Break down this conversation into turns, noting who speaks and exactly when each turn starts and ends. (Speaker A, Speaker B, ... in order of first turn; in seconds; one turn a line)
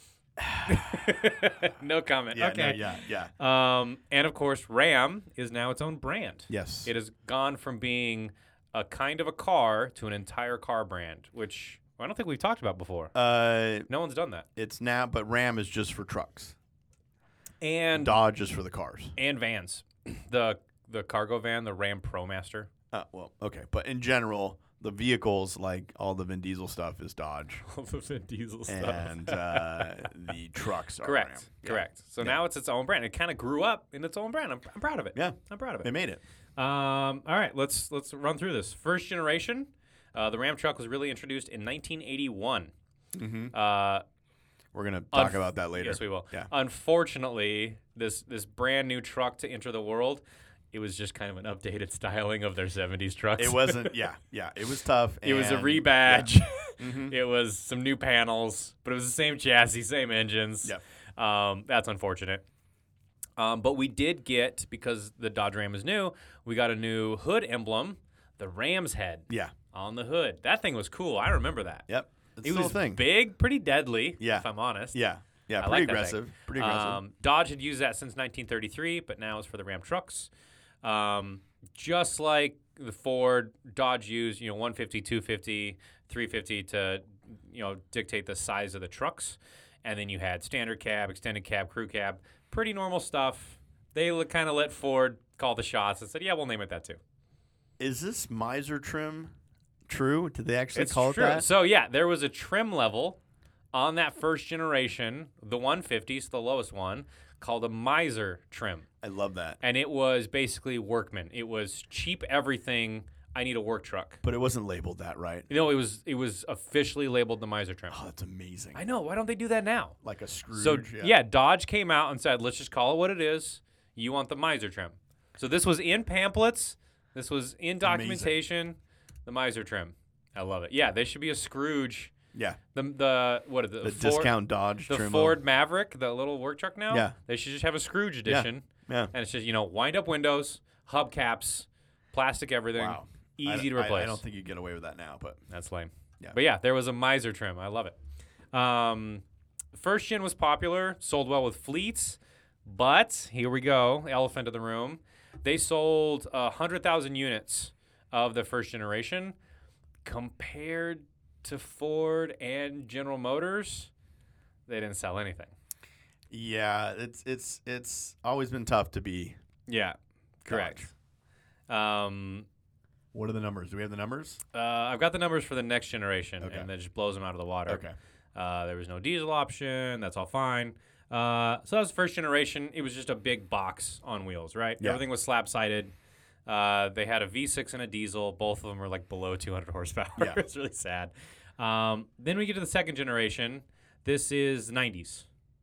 Speaker A: 0.4-1.1
Speaker B: 0.7-13.1
Speaker A: 2.3-3.3
Speaker A: 6.5-6.9
Speaker A: 13.1-13.9
Speaker B: 13.9-14.4
Speaker A: 14.6-16.6
Speaker B: 17.6-18.1
Speaker A: 17.9-19.1
Speaker B: 19.2-22.7
Speaker A: 22.9-27.6
Speaker B: 27.6-30.1
Speaker A: 28.7-32.4
Speaker B: 31.0-35.9
Speaker A: 35.1-36.2
Speaker B: 36.6-42.7
Speaker A: 43.1-43.5
Speaker B: 43.5-44.0
Speaker A: 44.7-46.5
Speaker B: 45.1-54.0
Speaker A: 53.4-57.1
Speaker B: 55.2-62.4
Speaker B: 63.4-71.9
Speaker A: 69.3-69.5
Speaker A: 71.9-73.0
Speaker B: 72.4-75.0
Speaker A: 74.2-77.0
Speaker B: 75.6-80.3
Speaker B: 80.8-97.0
Speaker A: 97.8-99.3
Speaker A: 99.9-101.5
Speaker B: 100.7-103.2
Speaker B: 103.7-108.8
Speaker A: 109.0-109.6
Speaker B: 109.6-114.2
Speaker A: 114.2-115.5
Speaker B: 115.5-118.0
Speaker A: 117.9-118.8
Speaker B: 118.7-120.0
Speaker A: 120.0-121.1
Speaker B: 120.5-132.1
Speaker A: 127.8-128.4
Speaker A: 132.3-132.6
Speaker B: 132.7-134.3
Speaker A: 133.8-135.4
Speaker B: 134.9-144.2
Speaker A: 138.2-139.1
Speaker A: 142.8-145.4
Speaker B: 145.5-147.9
Speaker B: 148.5-159.3
Speaker B: 160.0-163.9
Speaker B: 164.7-165.5
Speaker A: 166.3-169.3
Speaker B: 169.7-170.8
Speaker A: 170.4-170.9
Speaker B: 171.7-172.4
Speaker A: 173.1-174.4
Speaker B: 174.5-185.9
Speaker A: 176.4-176.7
Speaker A: 177.7-177.9
Speaker B: 186.4-195.3